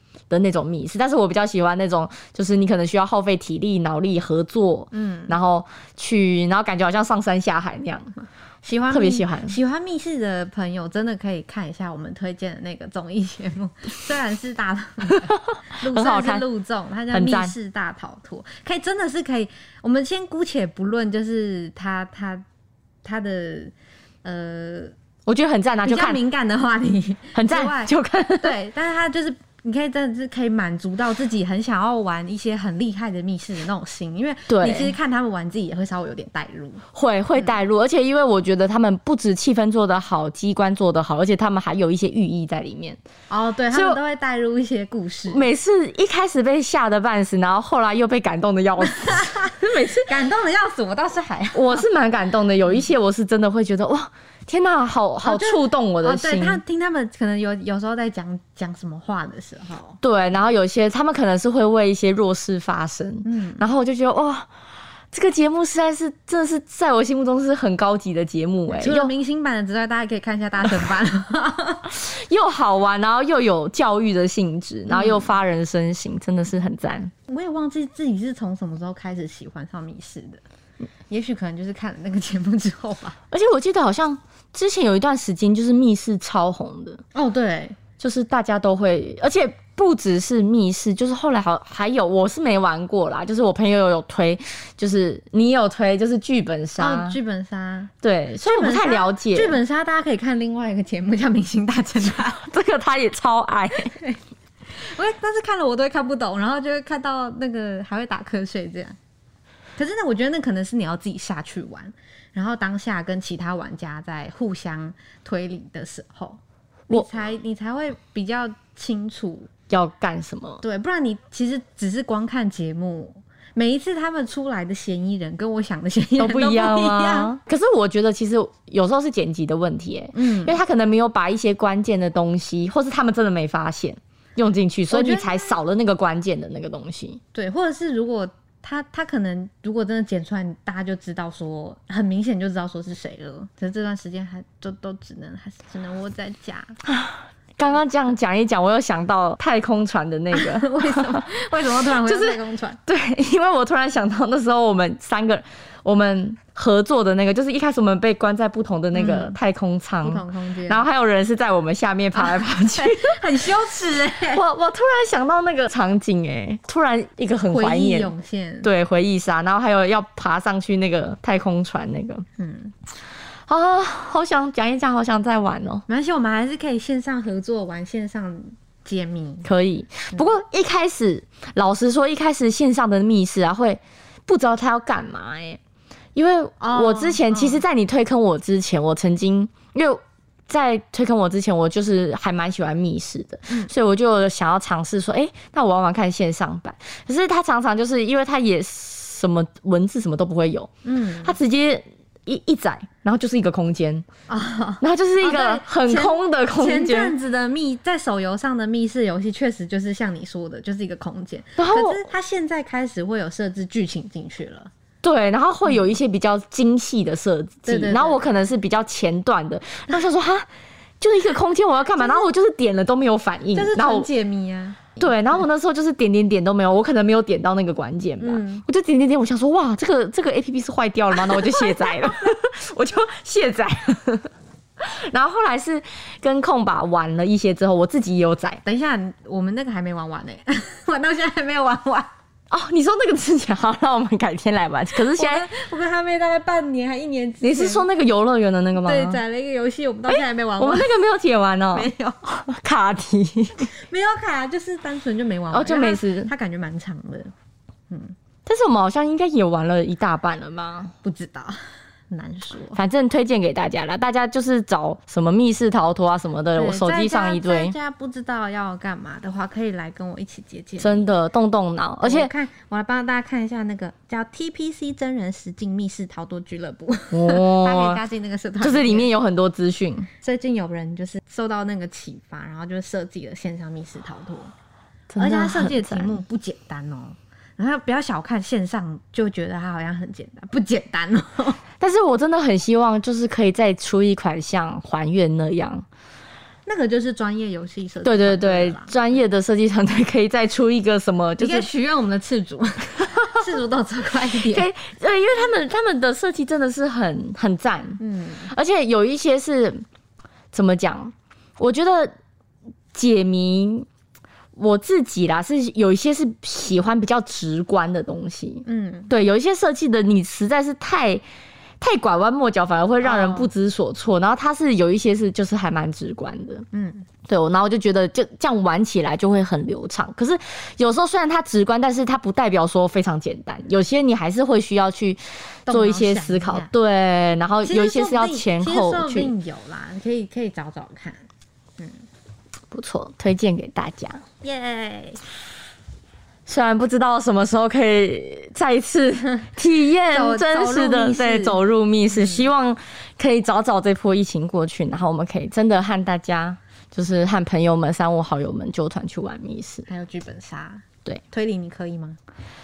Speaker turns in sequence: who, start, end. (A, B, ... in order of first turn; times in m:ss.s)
0:00.3-0:08.1 A
0:04.9-0:05.4 B
0:08.6-0:22.4 B
0:08.9-0:09.6 A
0:15.1-0:16.4 A
0:17.1-0:17.5 A
0:23.0-0:23.7 B
0:24.2-0:25.0 B
0:25.3-0:26.2 A
0:25.8-0:36.8 B
0:27.4-0:28.5 A
0:34.5-0:34.9 A
0:36.9-0:43.0 A
0:43.3-0:45.5 B
0:43.7-0:44.0 A
0:45.3-0:50.1 A
0:48.8-0:51.9 B
0:51.5-0:56.6 A
0:55.2-1:00.0 B
1:00.0-1:04.5 A
1:03.2-1:03.7 B
1:05.1-1:09.1 A
1:08.7-1:11.9 B
1:11.9-1:17.1 A
1:14.9-1:15.3 B
1:17.3-1:20.4 B
1:21.1-1:23.2 B
1:23.3-1:27.0 A
1:27.1-1:27.8 B
1:28.0-1:37.2 A
1:36.8-1:42.5 B
1:38.0-1:39.6 A
1:42.4-1:44.0 A
1:43.9-1:44.2 B
1:44.7-1:49.0 B
1:49.8-1:59.5 B
1:59.7-2:00.6 A
2:00.6-2:07.4 B
2:06.2-2:17.2 A
2:10.1-2:10.6 B
2:14.9-2:15.6 B
2:17.3-2:26.8 B
2:26.8-2:31.2 A
2:30.3-2:32.8 B
2:31.8-2:43.2 A
2:38.9-2:39.4 B
2:40.0-2:40.9 B
2:42.2-2:44.4 B
2:44.3-2:52.2 A
2:47.5-2:48.7 B
2:52.4-2:52.7 B
2:53.5-2:55.8 A
2:55.9-2:59.5 B
2:59.4-3:05.6 A
3:06.2-3:20.7 A
3:06.6-3:07.6 B
3:20.8-3:21.4 B
3:21.2-3:24.1 A
3:24.3-3:34.7 B
3:24.8-3:27.1 A
3:31.6-3:32.0 A
3:35.0-3:40.5 A
3:37.7-3:38.3 B
3:41.0-3:44.1 A
3:43.5-3:45.1 B
3:45.0-3:58.6 A
3:48.2-3:48.6 B
3:51.3-3:52.1 B
3:58.6-4:02.1 B
4:02.5-4:05.5 A
4:05.1-4:07.9 B
4:07.4-4:09.2 A
4:08.8-4:10.9 B
4:10.1-4:13.7 A
4:11.7-4:12.2 B
4:13.7-4:17.3 B
4:15.5-4:16.3 A
4:17.9-4:18.2 B
4:18.5-4:20.9 A
4:21.0-4:22.8 B
4:22.7-4:27.8 A
4:26.5-4:31.0 B
4:30.8-4:32.3 A
4:32.0-4:39.1 B
4:37.1-4:38.0 A
4:38.6-4:40.1 A
4:40.2-4:44.5 B
4:45.1-4:46.2 A
4:45.2-4:51.6 B
4:51.8-4:55.8 A
4:56.7-4:59.0 B
4:58.0-5:01.7 A
5:01.4-5:04.7 B
5:04.4-5:09.8 A
5:08.0-5:08.5 B
5:10.5-5:12.1 A
5:12.9-5:13.9 A
5:14.6-5:21.2 A
5:18.6-5:19.1 B
5:21.8-5:26.6 A
5:23.0-5:23.5 B
5:26.7-5:27.1 B
5:27.3-5:39.3 A
5:35.7-5:36.7 B
5:37.6-5:41.3 B
5:41.8-5:42.0 B
5:42.7-5:44.2 A
5:44.4-5:45.2 B
5:46.5-5:59.9 A
5:50.1-5:51.6 B
5:52.1-5:52.4 B
5:59.9-6:02.2 B